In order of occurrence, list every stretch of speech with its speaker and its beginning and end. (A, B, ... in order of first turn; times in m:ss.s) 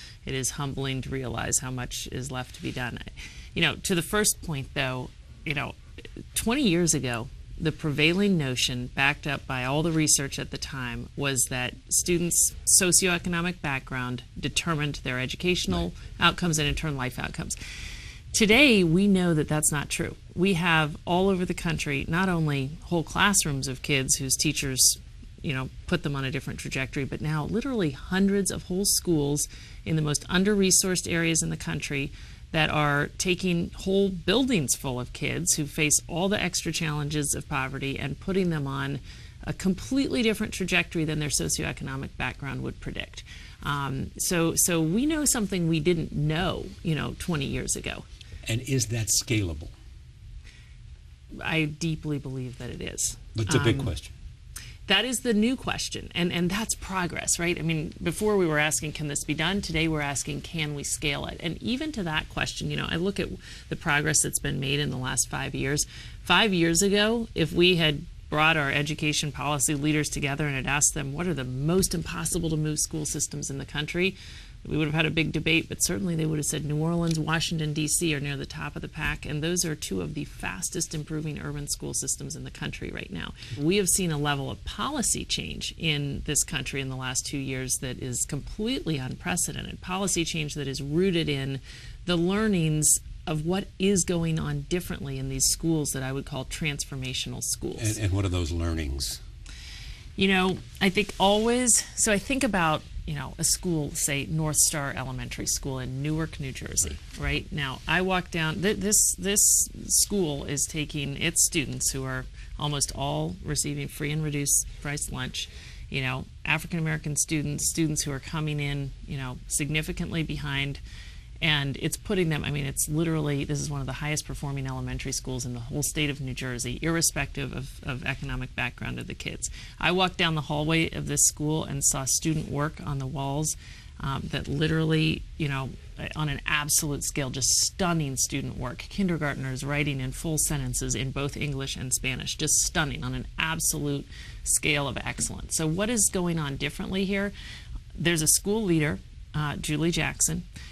0:00.2-0:05.8 A
0:06.3-0:17.6 A
0:18.3-0:48.0 A
0:48.4-0:49.7 B
0:51.4-0:53.9 A
0:53.4-0:54.1 B
0:54.9-1:38.0 A
1:37.8-1:39.2 B
1:40.2-2:00.8 A
2:01.4-2:27.3 A
2:27.9-2:30.4 A